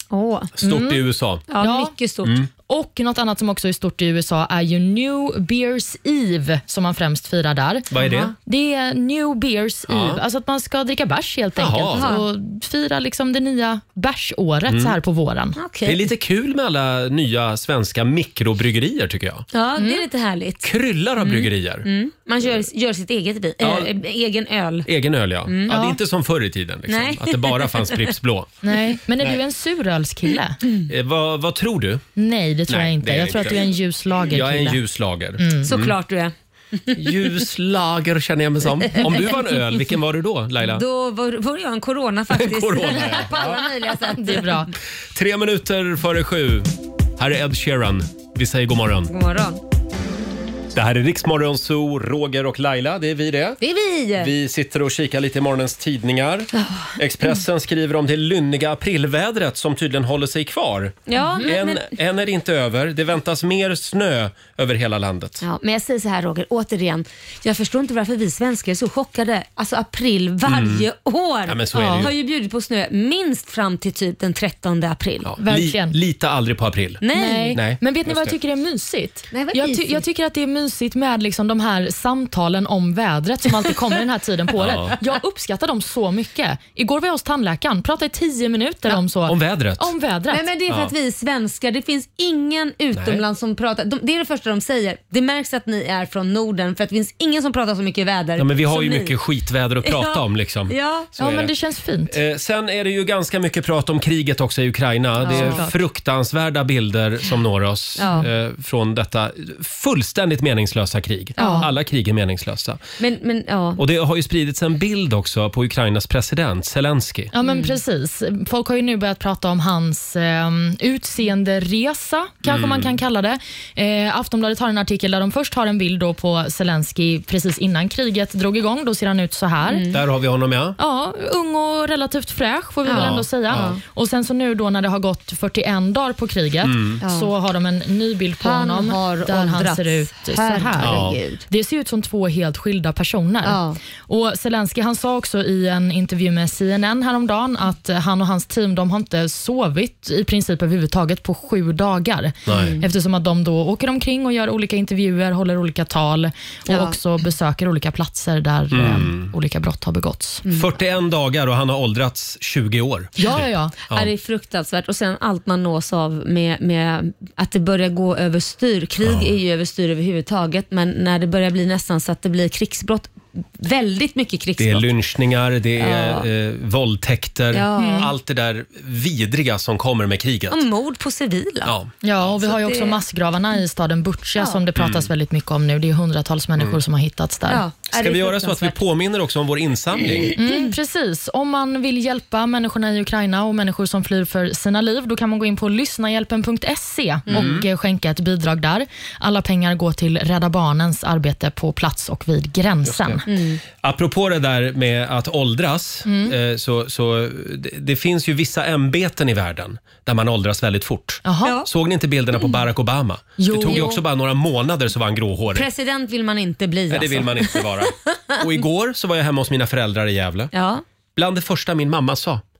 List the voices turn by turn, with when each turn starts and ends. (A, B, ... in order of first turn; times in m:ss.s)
0:00.1-0:00.5 A
0:00.6-0:01.4 B
0:00.6-0:01.0 C
0:01.5-0:02.3 A
0:01.6-0:01.9 C
0:02.2-0:02.5 B
0:02.7-0:15.6 C
0:07.9-0:08.3 B
0:08.0-0:08.3 A
0:09.9-0:10.2 B
0:11.6-0:12.1 B
0:11.9-0:12.2 A
0:14.7-0:15.0 B
0:15.6-0:16.1 A
0:15.8-0:19.5 B
0:19.5-0:24.9 A
0:19.8-0:20.0 C
0:20.6-0:21.9 B
0:23.6-0:23.9 B
0:24.8-0:28.5 B
0:25.4-0:25.7 A
0:25.7-0:26.0 C
0:26.9-0:28.1 A
0:28.6-0:30.6 C
0:30.9-0:32.0 B
0:32.2-0:34.8 C
0:32.7-0:33.6 B
0:34.2-0:35.9 B
0:35.4-0:35.7 C
0:35.6-0:37.4 A
0:36.9-0:40.8 B
0:38.9-0:39.4 A
0:40.7-0:44.5 A
0:42.3-0:43.6 B
0:44.1-0:44.7 C
0:45.1-0:49.1 B
0:49.1-0:49.6 A
0:50.7-0:53.6 B
0:53.6-0:54.3 A
0:54.2-1:05.4 B
0:56.6-0:56.9 A
1:01.1-1:01.9 A
1:05.4-1:15.3 A
1:10.4-1:10.8 B
1:11.5-1:12.1 B
1:15.2-1:17.0 B
1:15.4-1:16.0 C
1:17.0-1:17.6 A
1:17.1-1:30.4 C
1:17.5-1:18.3 B
1:19.3-1:20.0 A
1:24.6-1:24.9 B
1:28.9-1:29.9 B
1:30.3-1:39.2 A
1:32.9-1:33.2 B
1:38.4-1:41.5 B
1:39.8-1:41.1 A
1:41.2-1:42.1 C
1:42.1-1:52.8 B
1:45.2-1:45.6 A
1:45.2-1:45.8 C
1:48.0-1:48.3 A
1:51.4-1:51.7 A
1:51.4-1:51.7 C
1:53.0-1:53.8 A
1:53.8-1:57.3 B
1:57.3-2:09.9 C
1:57.4-1:57.7 A
2:02.4-2:03.0 B
2:09.7-2:10.0 A
2:09.9-2:10.8 B
2:10.8-2:40.4 C
2:12.8-2:13.8 A
2:12.9-2:13.8 B
2:16.6-2:17.0 B
2:17.0-2:17.3 A
2:18.4-2:21.4 A
2:20.8-2:21.2 B
2:23.4-2:23.8 A
2:32.5-2:32.8 B
2:32.5-2:32.8 A
2:36.7-2:36.9 A
2:38.7-2:39.3 B
2:40.5-2:44.1 B
2:43.2-2:43.7 C
2:43.9-2:54.8 A
2:49.0-2:49.3 B
2:54.6-3:00.6 B
2:55.8-2:56.2 A
2:57.5-2:58.1 A
2:57.8-2:58.1 C
3:00.5-3:01.8 A
3:01.6-3:01.9 B
3:02.0-3:07.6 C
3:02.4-3:03.0 A
3:04.8-3:05.1 B
3:07.5-3:08.8 A
3:07.9-3:10.3 B
3:10.1-3:10.7 A
3:10.4-3:23.2 C
3:17.3-3:17.7 B
3:22.8-3:23.2 B
3:23.3-3:23.6 A
3:23.8-3:35.6 B
3:26.0-3:26.3 C
3:31.2-3:31.6 C
3:33.4-3:34.0 C
3:33.7-3:34.0 A
3:35.5-3:37.9 A
3:36.9-3:40.5 B
3:40.5-3:40.8 A
3:41.2-3:42.4 B